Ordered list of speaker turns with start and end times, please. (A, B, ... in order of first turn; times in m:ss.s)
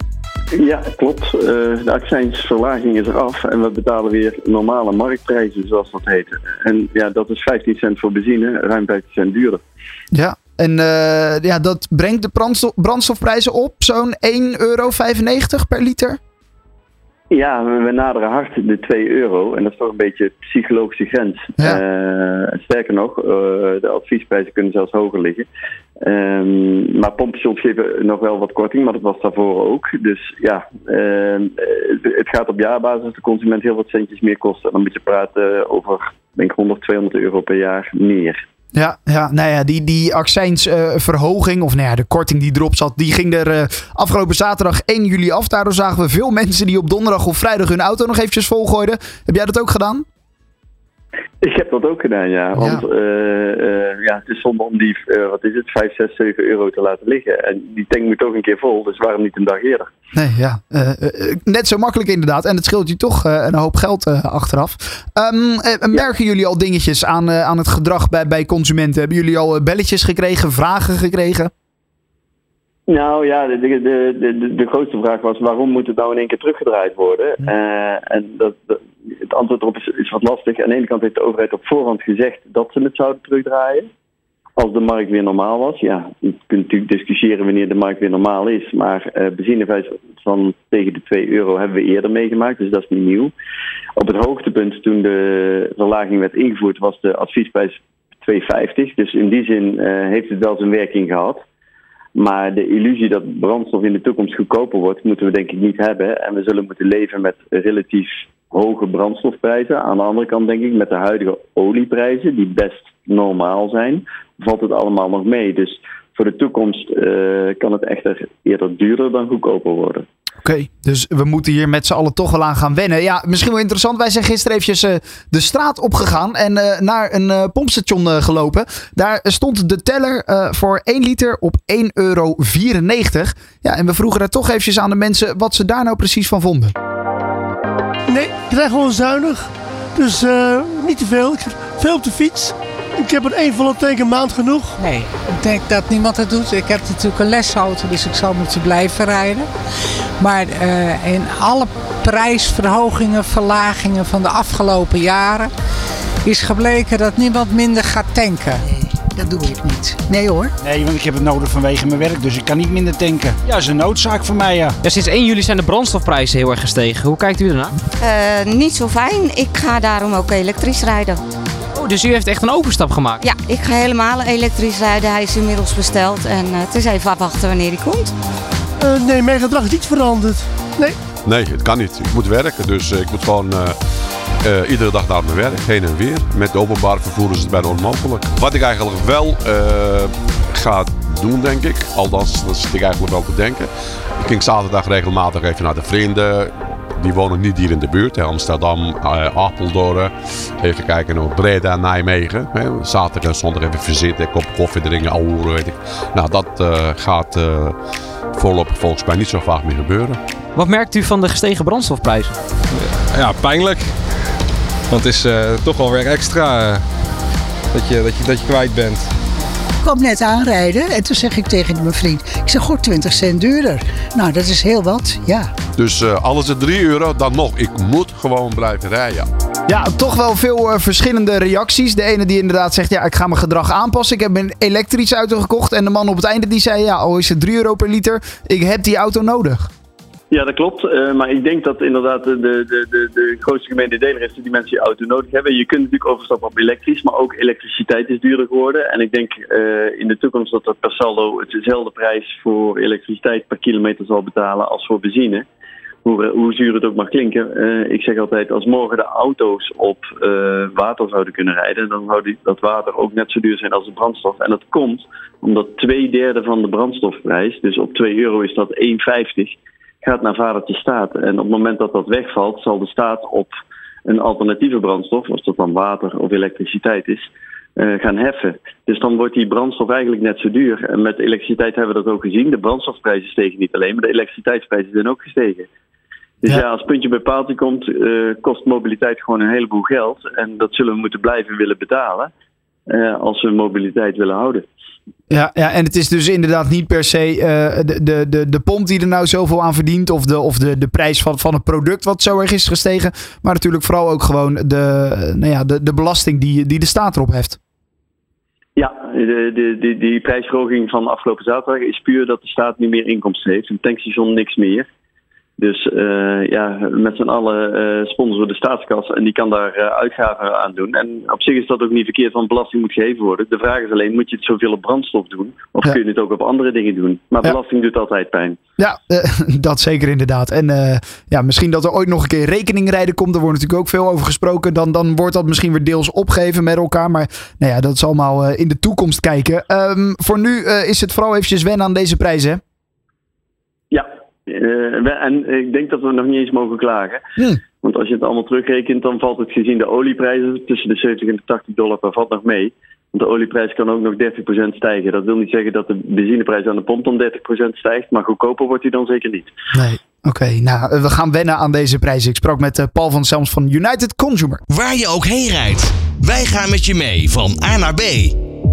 0:00.6-0:09.6 A
0:10.1-0:16.2 B
0:17.3-0:25.5 A
0:26.0-0:38.4 A
0:38.8-0:50.0 B
0:51.4-0:59.9 A
0:52.6-0:52.8 B
1:00.1-1:11.5 B
1:12.9-1:23.9 A
1:24.6-1:33.3 A
1:34.0-1:41.4 A
1:42.2-2:00.0 A
2:00.4-2:16.8 B
2:18.1-2:24.8 C
2:24.8-2:29.5 D
2:30.2-2:35.5 D
2:36.2-2:38.6 D
2:38.9-2:40.5 E
2:40.6-2:44.8 F
2:44.8-2:47.8 G
2:48.0-2:51.2 H
2:51.8-2:53.3 G
2:53.2-2:58.1 H
2:58.8-3:01.0 C
3:01.2-3:03.8 I
3:04.4-3:27.8 I
3:28.3-3:30.2 I
3:30.6-3:32.4 G
3:32.7-3:34.0 J
3:34.9-3:36.8 J
3:37.7-3:39.1 J
3:39.8-3:45.5 E
3:45.8-3:49.3 I
3:49.7-3:59.7 B
4:00.3-4:15.4 A
4:16.0-4:33.5 A
4:34.1-4:45.7 A
4:46.4-4:52.3 A
4:52.9-4:54.7 A
4:55.3-5:07.6 B
5:08.8-5:14.8 A
5:15.6-5:28.6 A
5:28.8-5:42.6 B
5:43.9-5:47.2 A
5:47.8-5:59.5 A
5:59.7-6:04.6 B
6:04.7-6:08.4 K